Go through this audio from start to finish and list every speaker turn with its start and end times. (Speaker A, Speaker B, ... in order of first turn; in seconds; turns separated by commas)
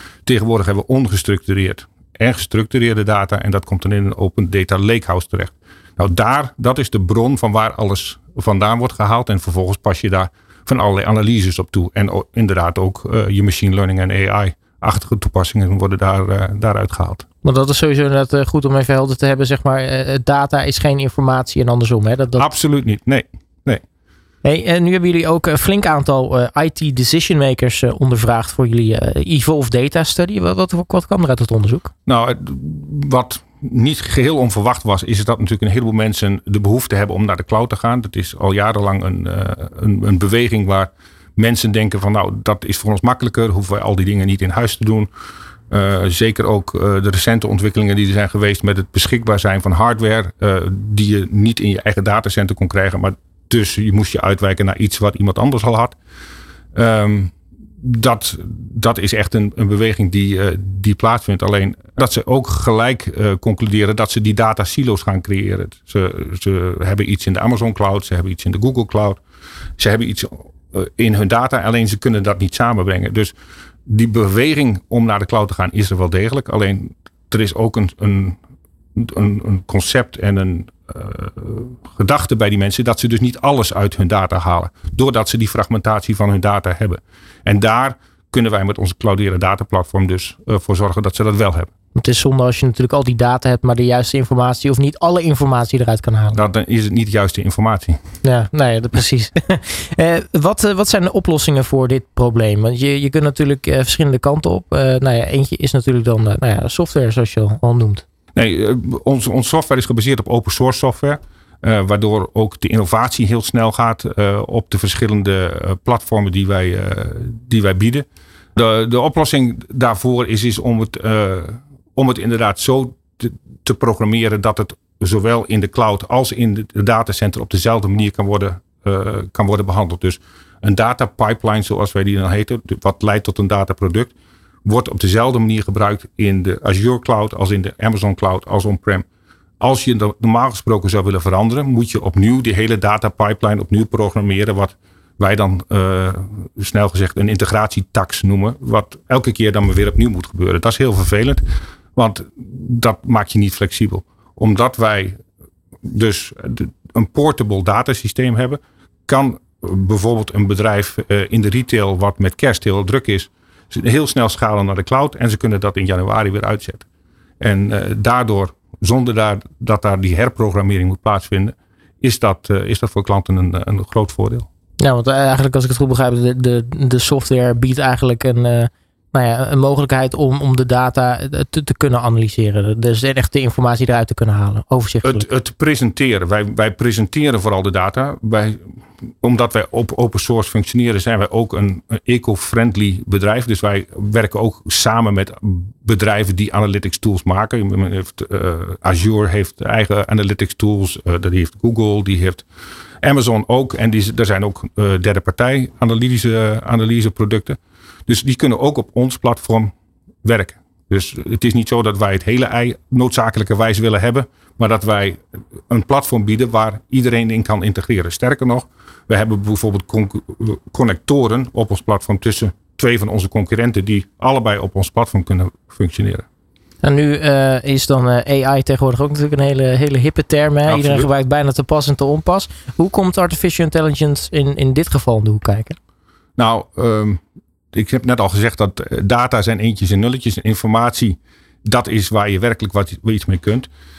Speaker A: 0.2-17.2, Speaker B: 17.4-22.5, Speaker A: 22.4-23.8, Speaker B: 24.4-31.9, Speaker A: 32.0-45.1, Speaker A: 45.7-56.0, Speaker A: 56.7-69.2, Speaker A: 69.8-73.3, Speaker A: 73.9-78.4, Speaker A: 79.0-91.7, Speaker B: 91.9-96.4, Speaker A: 96.3-98.0, Speaker B: 98.2-108.0, Speaker A: 108.3-134.1, Speaker A: 134.7-139.0, Speaker A: 139.6-151.4, Speaker A: 151.9-155.2, Speaker A: 155.8-166.8, Speaker A: 167.4-174.5, Speaker B: 174.8-185.2, Speaker A: 185.0-188.6, Speaker A: 189.2-202.4, Speaker A: 203.0-209.7, Speaker A: 210.2-226.2, Speaker B: 226.8-235.8, Speaker A: 230.7-231.1, Speaker A: 236.4-237.2, Speaker A: 237.7-243.7